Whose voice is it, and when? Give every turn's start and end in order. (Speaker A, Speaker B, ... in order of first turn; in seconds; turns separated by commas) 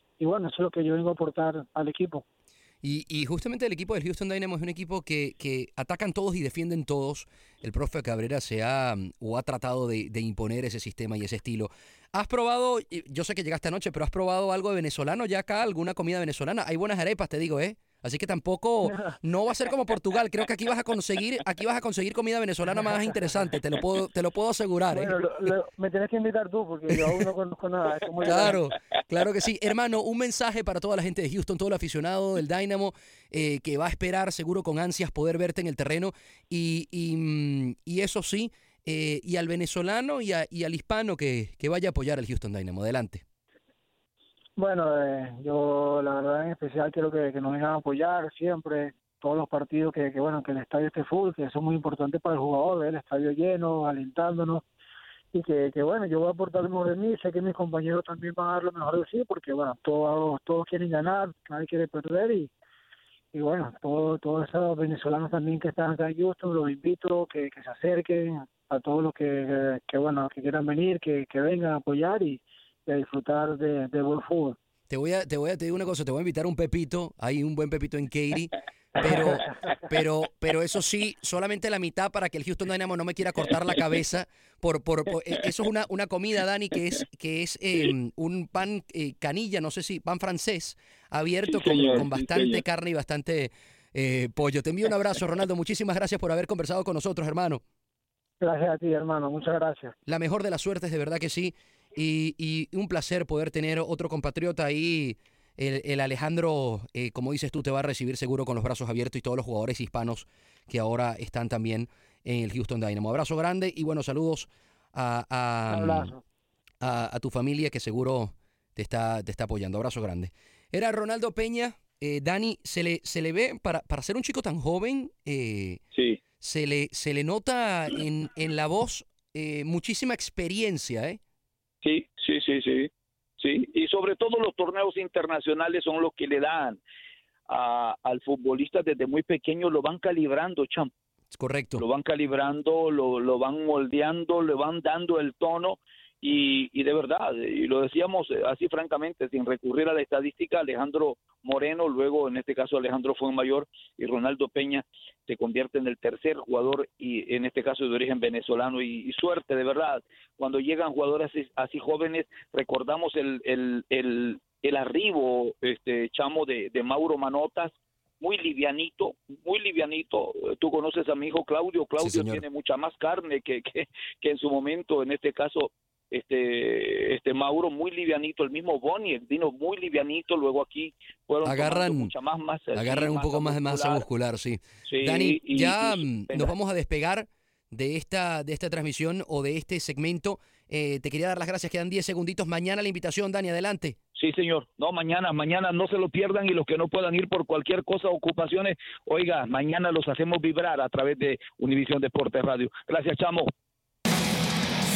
Speaker A: 0.2-2.2, Speaker B: 2.8-25.2, Speaker A: 24.9-28.6, Speaker B: 28.2-43.2, Speaker A: 44.6-54.6, Speaker A: 55.3-62.5, Speaker A: 63.3-74.6, Speaker B: 74.9-97.6, Speaker C: 91.5-92.6, Speaker A: 98.4-100.0, Speaker B: 100.1-116.1, Speaker A: 115.7-116.2, Speaker B: 116.8-125.8, Speaker B: 126.4-131.2, Speaker C: 131.8-136.8, Speaker C: 137.5-140.9, Speaker B: 141.3-141.8, Speaker C: 141.8-184.1, Speaker B: 172.0-172.4, Speaker B: 181.4-182.1, Speaker B: 182.7-194.0, Speaker C: 184.9-186.5, Speaker C: 194.2-203.5